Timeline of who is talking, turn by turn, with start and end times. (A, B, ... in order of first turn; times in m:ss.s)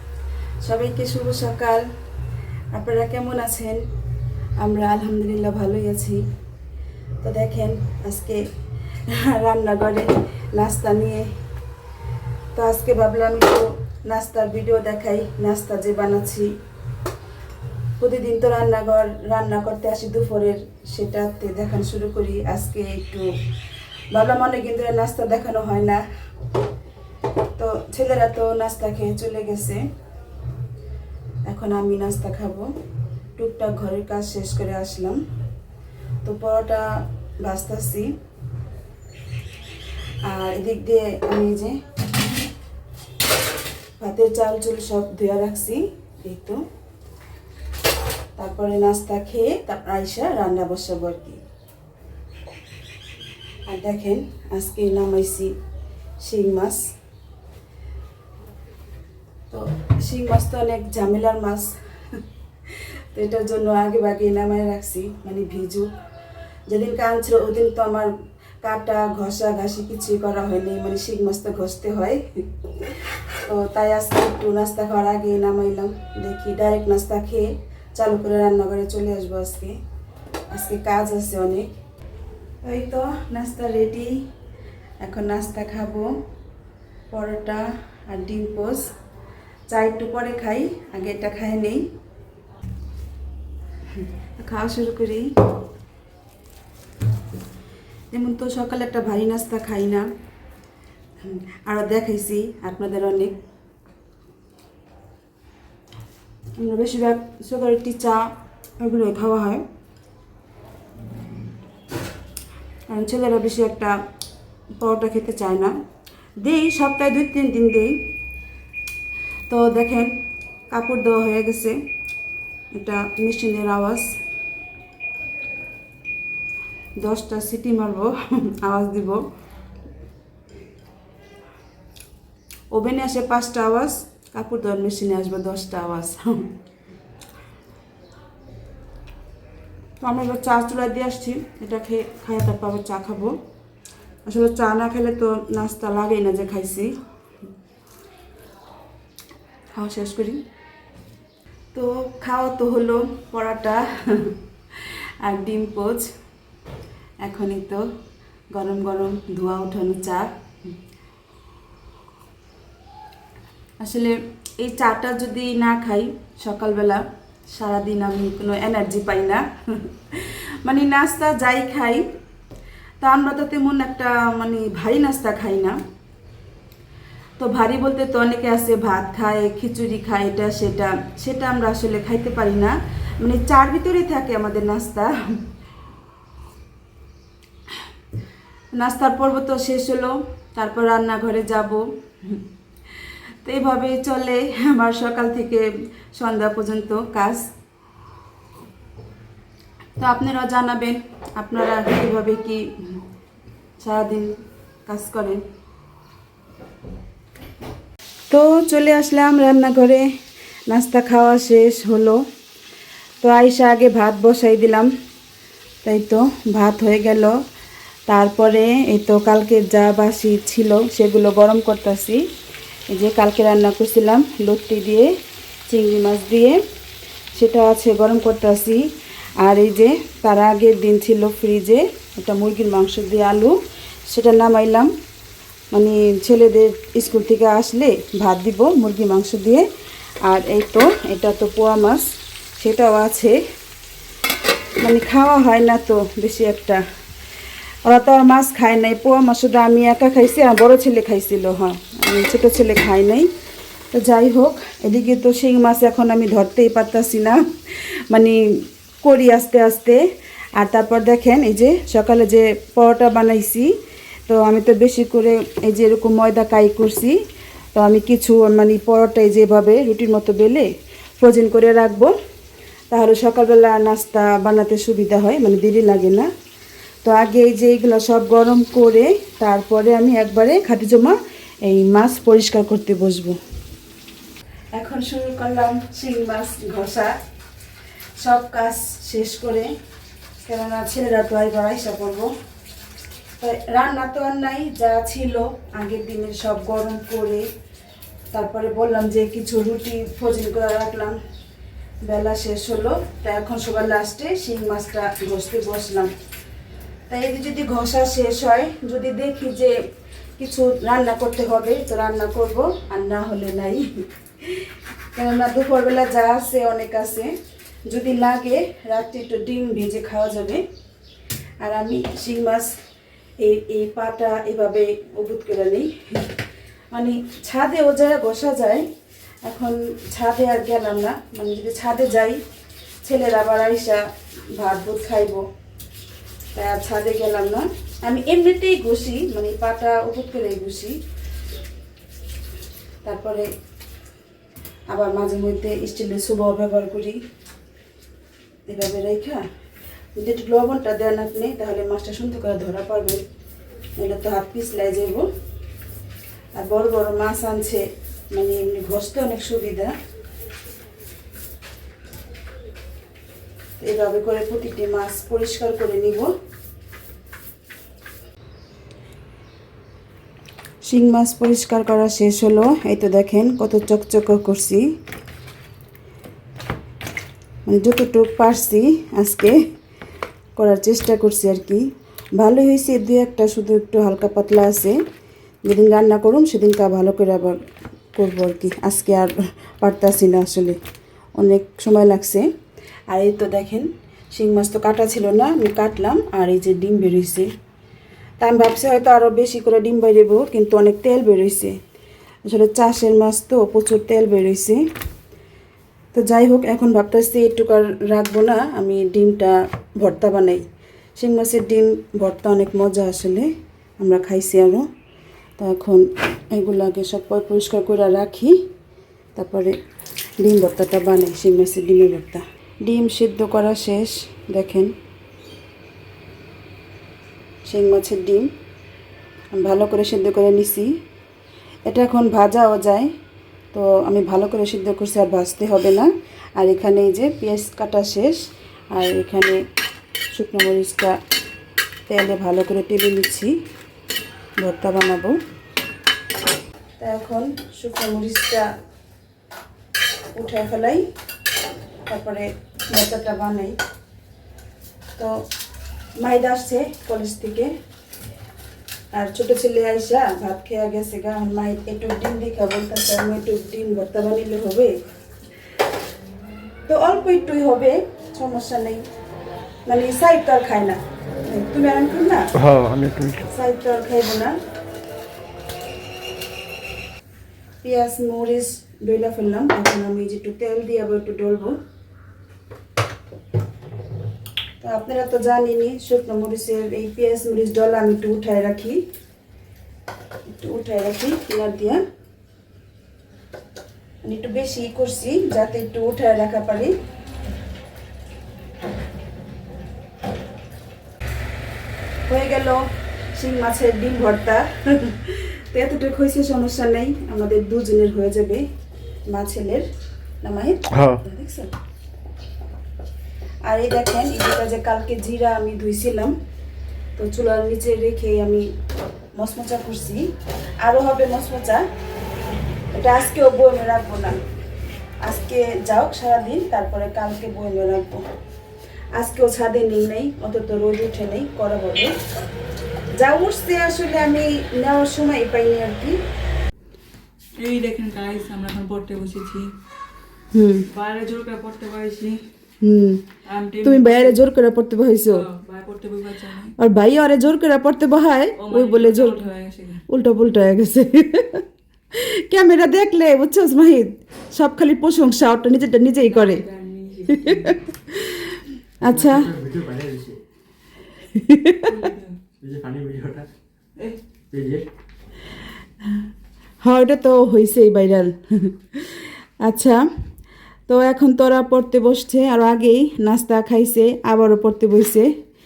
0:00.6-0:01.8 A
0:02.7-0:03.8 A
0:04.6-0:06.2 A
0:07.2-0:08.4 A
0:09.1-0:11.3 A
0:12.6-0:16.5 A
0:18.0-0:23.3 A
0:24.1-0:26.0 A
0:27.6-0:29.8 A
0:31.4-0:32.7 A
0:33.4-0:35.2 A
0:36.2-0:38.1 A
0:40.2-0:41.8 A
0:44.0-0:46.6 A
0:48.4-0:51.4 A
0:53.7-0:55.5 A
0:56.2-0:56.9 A
0:59.5-1:01.7 A
1:02.7-1:05.9 A
1:06.7-1:12.4 A
1:13.5-1:19.8 A
1:20.5-1:21.7 A
1:22.6-1:24.2 A
1:25.0-1:26.2 A
1:27.1-1:28.9 A
1:29.7-1:31.8 A
1:34.0-1:35.3 A
1:38.1-1:40.1 A
1:41.2-1:43.4 A
1:46.6-1:49.6 A
1:52.9-1:54.0 A
1:54.8-1:55.7 A
1:56.4-1:58.1 A
1:59.5-2:00.2 A
2:00.7-2:01.8 A
2:02.7-2:04.1 A
2:07.0-2:09.2 A
2:12.7-2:16.5 A
2:20.0-2:23.4 A
2:24.3-2:26.9 A
2:29.7-2:30.4 A
2:31.7-2:34.4 A
2:34.9-2:36.1 A
2:37.2-2:37.8 A
2:38.5-2:40.3 A
2:43.8-2:52.1 A
2:53.0-2:55.8 A
2:57.4-3:05.4 A
3:08.7-3:12.4 A
3:13.4-3:17.5 A
3:20.0-3:23.0 A
3:23.8-3:24.4 A
3:24.9-3:25.4 A
3:28.3-3:30.1 A
3:30.7-3:32.2 A
3:33.2-3:34.9 A
3:35.8-3:37.4 A
3:38.1-3:42.2 A
3:42.9-3:45.1 A
3:45.7-3:46.6 A
3:47.4-3:48.8 A
3:49.4-3:53.6 A
3:54.1-3:54.9 A
3:55.7-3:59.7 A
4:00.2-4:03.4 A
4:04.8-4:06.8 A
4:07.9-4:13.3 A
4:13.9-4:20.0 A
4:20.6-4:23.7 A
4:24.3-4:27.2 A
4:27.8-4:30.7 A
4:31.2-4:32.1 A
4:32.9-4:36.3 A
4:37.0-4:43.4 A
4:44.8-4:47.1 A
4:48.2-4:49.7 A
4:50.4-4:52.3 A
4:53.4-4:57.5 A
4:58.3-5:01.2 A
5:02.0-5:06.1 A
5:07.1-5:09.8 A
5:10.4-5:17.3 A
5:17.9-5:20.6 A
5:21.6-5:22.8 A
5:23.4-5:26.4 A
5:26.9-5:28.9 A
5:29.4-5:32.4 A
5:33.0-5:34.0 A
5:34.6-5:35.4 A
5:36.5-5:41.0 A
5:43.0-5:43.5 A
5:44.9-5:47.2 A
5:48.7-5:49.4 A
5:50.2-5:53.2 A
5:54.0-5:55.3 A
5:56.6-5:59.9 A
6:03.8-6:06.3 A
6:10.8-6:14.9 A
6:17.7-6:19.6 A
6:20.6-6:25.0 A
6:25.6-6:27.6 A
6:28.2-6:30.8 A
6:31.4-6:32.5 A
6:33.1-6:37.5 A
6:38.4-6:41.8 A
6:42.5-6:44.8 A
6:46.1-6:50.6 A
6:51.2-6:54.9 A
6:55.6-6:58.6 A
6:59.4-6:59.8 A
7:00.4-7:04.9 A
7:07.6-7:08.5 A
7:09.6-7:10.9 A
7:11.9-7:13.1 A
7:13.7-7:19.6 A
7:20.3-7:21.2 A
7:22.1-7:23.5 A
7:24.6-7:25.4 A
7:27.0-7:28.7 A
7:30.4-7:31.1 A
7:32.1-7:33.8 A
7:36.2-7:37.7 A
7:39.1-7:45.0 A
7:46.9-7:49.0 A
7:49.9-7:52.5 A
7:52.5-7:53.5 B
7:53.5-7:54.6 A
7:57.8-8:01.8 A
8:04.8-8:09.0 A
8:10.6-8:12.0 A
8:14.2-8:16.9 A
8:22.3-8:28.7 A
8:29.3-8:29.9 A
8:30.4-8:31.7 A
8:30.9-8:31.2 B
8:33.6-8:36.4 A
8:37.2-8:38.7 A
8:39.4-8:40.2 A
8:40.8-8:41.8 A
8:42.9-8:44.4 A
8:45.2-8:48.2 A
8:49.2-8:52.1 A
8:53.1-8:56.2 A
8:57.6-8:59.7 C
9:00.5-9:00.9 A
9:00.9-9:02.4 C
9:02.8-9:03.3 A
9:03.4-9:04.4 C
9:03.8-9:05.5 A
9:05.3-9:06.7 C
9:06.8-9:09.4 A
9:08.6-9:10.0 C
9:10.1-9:16.6 A
9:16.2-9:17.8 C
9:17.3-9:19.5 A
9:19.0-9:20.4 B
9:21.3-9:22.0 A
9:21.9-9:22.4 C
9:22.6-9:23.5 B
9:24.5-9:24.9 B
9:26.8-9:30.0 A
9:30.9-9:35.3 A